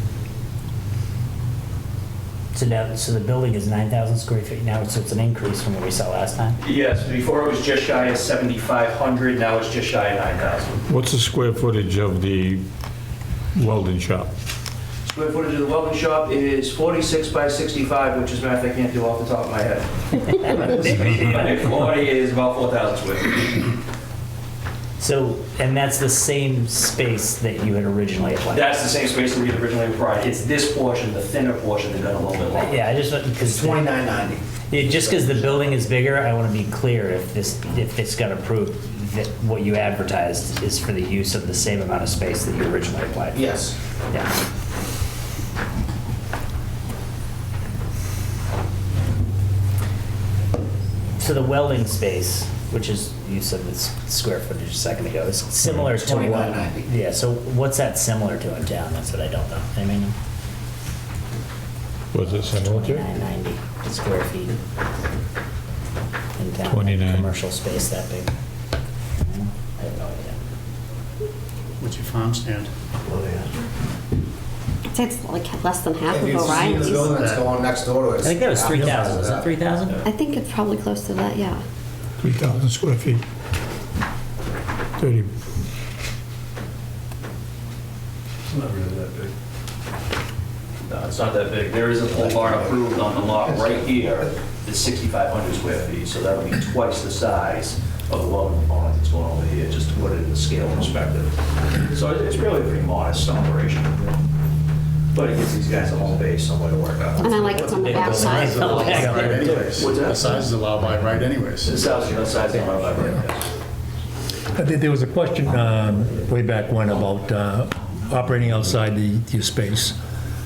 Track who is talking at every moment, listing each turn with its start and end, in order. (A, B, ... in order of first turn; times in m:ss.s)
0:02.5-0:06.6 A
0:06.6-0:10.8 B
0:11.0-0:12.6 C
0:13.6-0:14.3 C
0:15.1-0:23.7 B
0:20.3-0:21.5 A
0:25.0-0:28.7 A
0:28.5-0:32.8 B
0:32.6-0:33.9 A
0:33.4-0:35.6 D
0:34.7-0:43.5 A
0:43.3-0:43.8 D
0:51.2-1:00.2 A
0:55.8-0:56.9 D
1:02.2-1:02.9 E
1:02.2-1:02.8 C
1:02.2-1:04.6 A
1:06.4-1:08.3 A
1:09.2-1:10.4 A
1:11.8-1:12.7 F
1:14.9-1:17.2 G
1:16.1-1:19.5 D
1:17.0-1:17.4 F
1:18.2-1:20.0 A
1:20.0-1:21.6 G
1:22.2-1:23.2 E
1:25.0-1:25.3 E
1:30.9-1:44.0 B
1:45.1-1:47.4 B
1:47.2-1:49.1 G
1:47.2-1:49.6 A
1:47.9-1:51.8 F
1:49.0-1:50.4 B
1:51.6-1:53.4 B
1:54.6-2:00.0 E